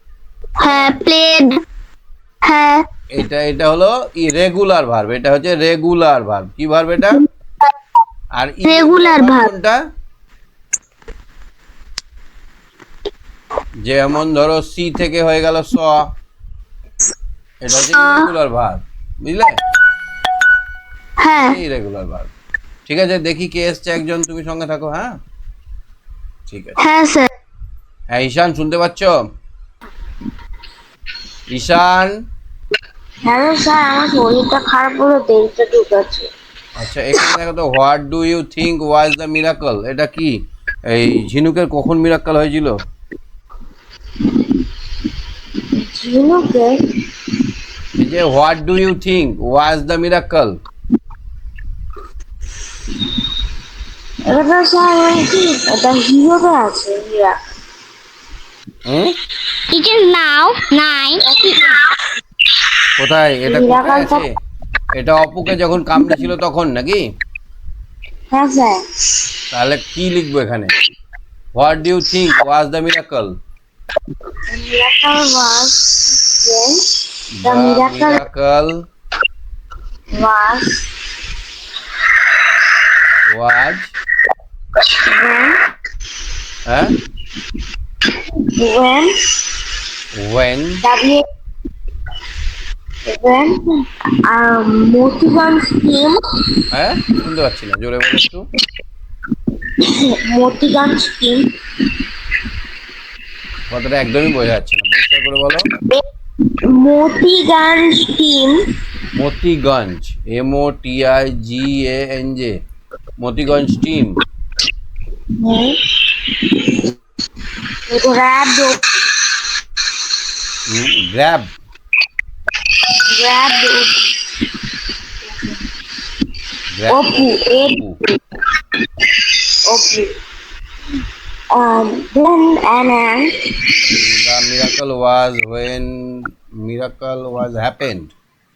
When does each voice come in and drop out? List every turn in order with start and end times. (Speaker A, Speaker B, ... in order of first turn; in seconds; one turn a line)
Speaker A: 0.6-1.6
Speaker B: 0.6-0.9
Speaker A: 2.4-2.8
Speaker B: 3.1-7.2
Speaker B: 8.3-9.8
Speaker A: 8.6-9.5
Speaker B: 13.8-16.1
Speaker B: 17.6-19.6
Speaker A: 17.7-18.3
Speaker A: 21.2-21.6
Speaker B: 21.3-22.3
Speaker B: 22.9-25.2
Speaker B: 26.5-26.8
Speaker A: 26.8-27.3
Speaker B: 28.1-29.2
Speaker B: 31.5-32.2
Speaker C: 33.2-36.3
Speaker B: 36.8-40.4
Speaker B: 40.9-42.8
Speaker C: 45.7-47.0
Speaker B: 48.0-50.6
Speaker C: 54.3-57.4
Speaker B: 58.9-59.1
Speaker A: 59.7-61.6
Speaker C: 61.2-61.8
Speaker B: 63.0-64.3
Speaker C: 63.5-64.2
Speaker B: 64.9-67.0
Speaker C: 68.3-68.8
Speaker B: 69.5-70.7
Speaker B: 71.5-73.3
Speaker C: 74.5-78.2
Speaker B: 77.3-78.8
Speaker C: 80.1-80.9
Speaker B: 83.3-83.9
Speaker C: 84.9-85.6
Speaker B: 86.7-86.9
Speaker C: 88.4-89.3
Speaker B: 90.1-90.8
Speaker C: 90.8-91.2
Speaker C: 93.0-93.7
Speaker C: 94.2-96.6
Speaker B: 96.7-98.4
Speaker C: 99.8-101.5
Speaker B: 103.7-105.7
Speaker C: 106.6-108.6
Speaker B: 109.1-112.6
Speaker B: 113.2-114.2
Speaker C: 115.4-116.8
Speaker C: 117.9-119.0
Speaker B: 120.7-121.5
Speaker C: 122.9-124.1
Speaker B: 126.7-128.0
Speaker C: 126.9-127.8
Speaker C: 129.5-130.1
Speaker C: 131.5-133.4
Speaker B: 133.9-138.1